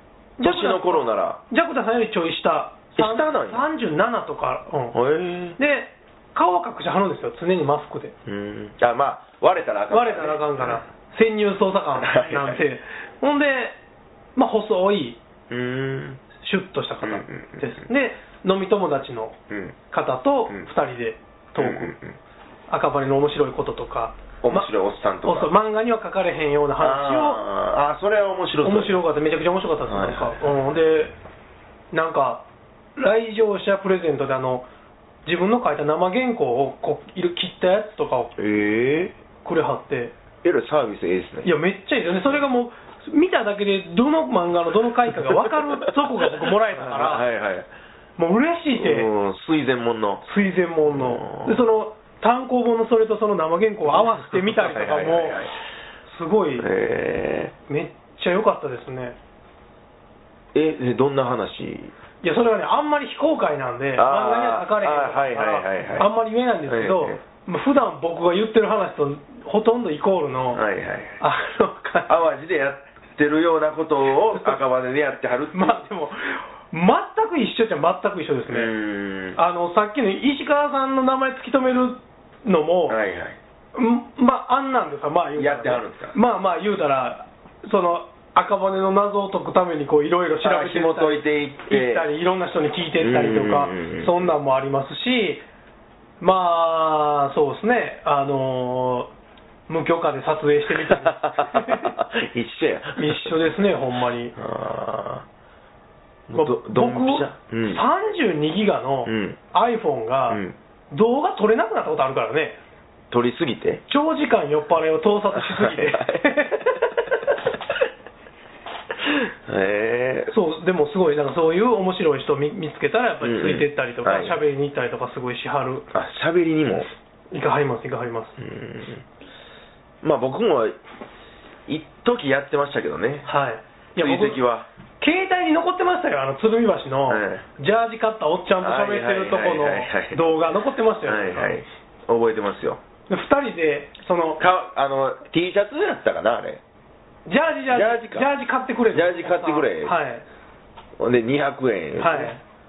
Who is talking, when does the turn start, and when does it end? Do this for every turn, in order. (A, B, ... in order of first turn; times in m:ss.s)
0:00.4-0:05.0 A
0:00.4-0:01.4 B
0:03.0-0:03.6 B
0:04.9-0:05.6 B
0:05.6-0:08.1 A
0:08.3-0:10.8 B
0:09.9-0:13.8 A
0:12.0-0:12.6 B
0:14.4-0:15.2 A
0:15.5-0:16.2 B
0:16.4-0:19.4 A
0:17.0-0:17.9 B
0:19.5-0:19.8 B
0:19.9-0:21.9 A
0:21.6-0:22.2 B
0:22.7-0:24.7 A
0:24.4-0:25.5 B
0:25.2-0:27.4 A
0:26.8-0:29.0 B
0:28.6-0:31.1 A
0:29.9-0:30.5 B
0:31.9-0:32.4 A
0:33.0-0:34.6 A
0:35.3-0:38.4 A
0:38.4-0:39.1 B
0:39.4-0:40.1 A
0:40.4-0:41.5 B
0:41.4-0:47.3 A
0:46.8-0:47.7 B
0:48.2-0:49.1 A
0:48.8-0:50.2 B
0:50.2-0:55.4 A
0:50.9-0:51.6 B
0:54.3-0:55.5 B
0:56.1-0:56.7 A
0:56.6-0:57.5 B
0:57.7-0:59.2 A
1:00.5-1:01.9 B
1:02.2-1:10.6 A
1:04.0-1:06.1 B
1:06.7-1:07.2 B
1:10.5-1:11.2 B
1:11.2-1:12.1 A
1:12.1-1:15.8 B
1:15.5-1:18.7 A
1:18.5-1:19.4 B
1:19.4-1:23.0 A
1:22.9-1:23.4 B
1:23.8-1:35.4 A
1:25.4-1:26.1 B
1:30.4-1:32.1 B
1:33.0-1:34.3 B
1:36.2-1:39.1 A
1:39.7-1:41.9 A
1:40.8-1:43.3 B
1:43.0-1:44.4 A
1:44.4-1:45.3 B
1:46.3-1:47.8 B
1:46.3-1:52.6 A
1:49.1-1:49.4 B
1:50.3-1:50.6 B
1:53.1-1:53.8 B
1:53.9-1:56.9 A
1:55.3-1:56.4 B
1:59.1-2:00.3 B
2:00.3-2:05.9 A
2:03.2-2:04.4 B
2:05.9-2:06.9 B
2:07.3-2:08.4 A
2:08.4-2:09.0 B
2:10.0-2:10.8 B
2:11.7-2:13.3 B
2:13.3-2:14.4 A
2:14.0-2:14.7 B
2:15.0-2:21.5 A
2:17.1-2:17.4 B
2:18.6-2:20.3 B
2:21.0-2:22.8 B
2:23.1-2:24.4 A
2:24.4-2:26.6 B
2:27.3-2:30.2 A
2:27.7-2:28.3 B
2:28.9-2:30.0 B
2:31.0-2:32.3 B
2:32.0-2:32.4 A